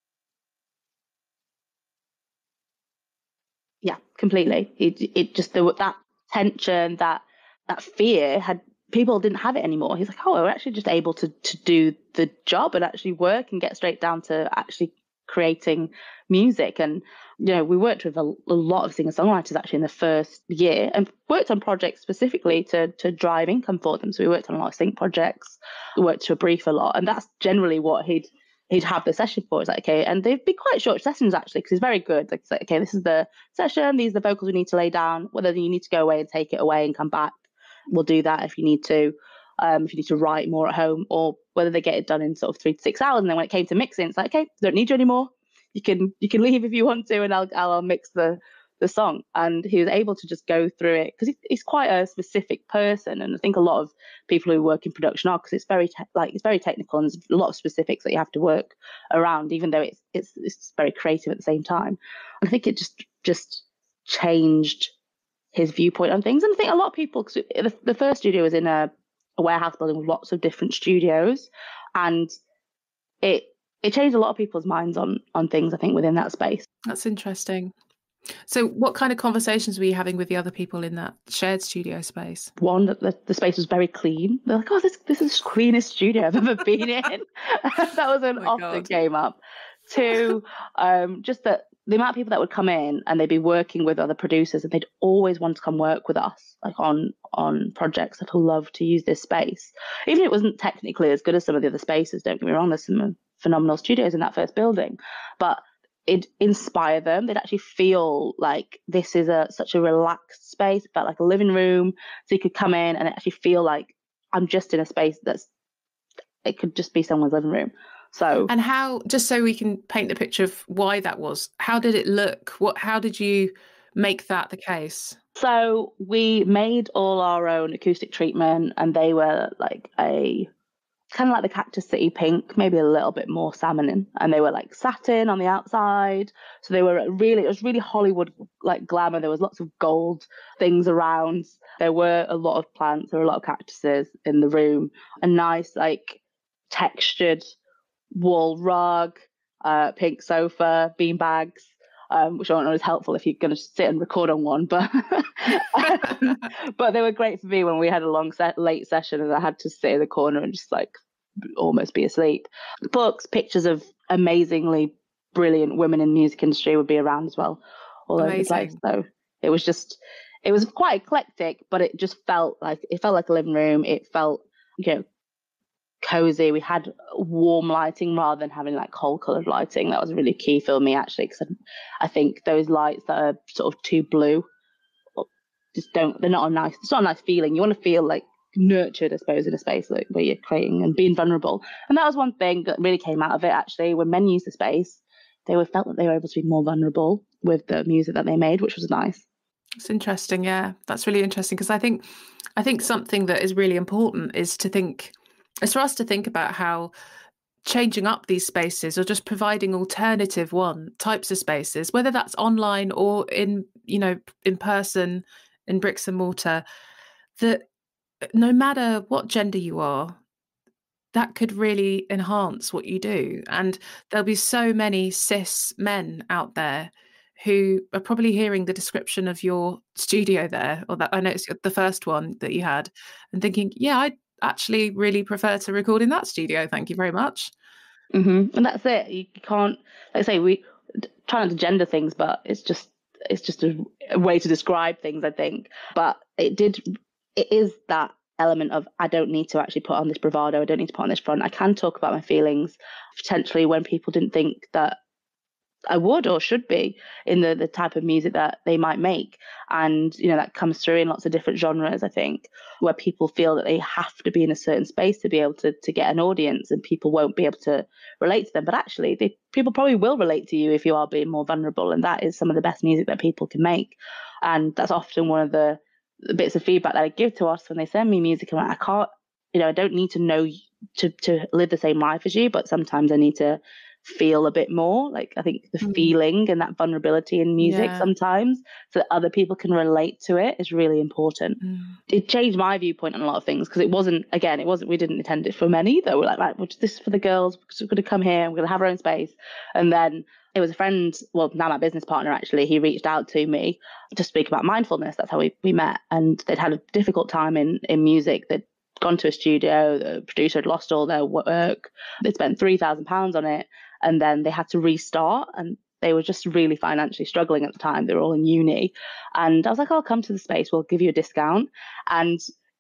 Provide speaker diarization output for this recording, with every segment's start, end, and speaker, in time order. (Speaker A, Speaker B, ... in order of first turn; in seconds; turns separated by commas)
Speaker A: 3.8-37.4, Speaker A: 37.9-64.9, Speaker A: 65.5-72.3, Speaker A: 73.2-76.7, Speaker B: 76.8-77.7, Speaker B: 78.5-82.5, Speaker A: 82.6-115.5, Speaker B: 88.4-88.9, Speaker A: 116.5-118.5, Speaker B: 118.5-125.2, Speaker A: 125.4-130.5, Speaker A: 131.1-146.2, Speaker A: 146.7-147.4, Speaker A: 148.1-160.9, Speaker B: 155.8-156.3, Speaker A: 161.6-175.1, Speaker B: 168.2-168.8, Speaker A: 176.0-181.5, Speaker A: 182.0-184.4, Speaker A: 185.2-199.2, Speaker B: 199.8-202.0, Speaker B: 202.6-206.9, Speaker B: 207.7-216.6, Speaker B: 217.4-217.7, Speaker B: 218.3-220.2, Speaker B: 221.1-237.5, Speaker A: 238.1-246.8, Speaker A: 247.4-255.0, Speaker A: 255.9-322.4, Speaker B: 285.8-286.1, Speaker B: 287.6-288.1, Speaker B: 291.6-292.0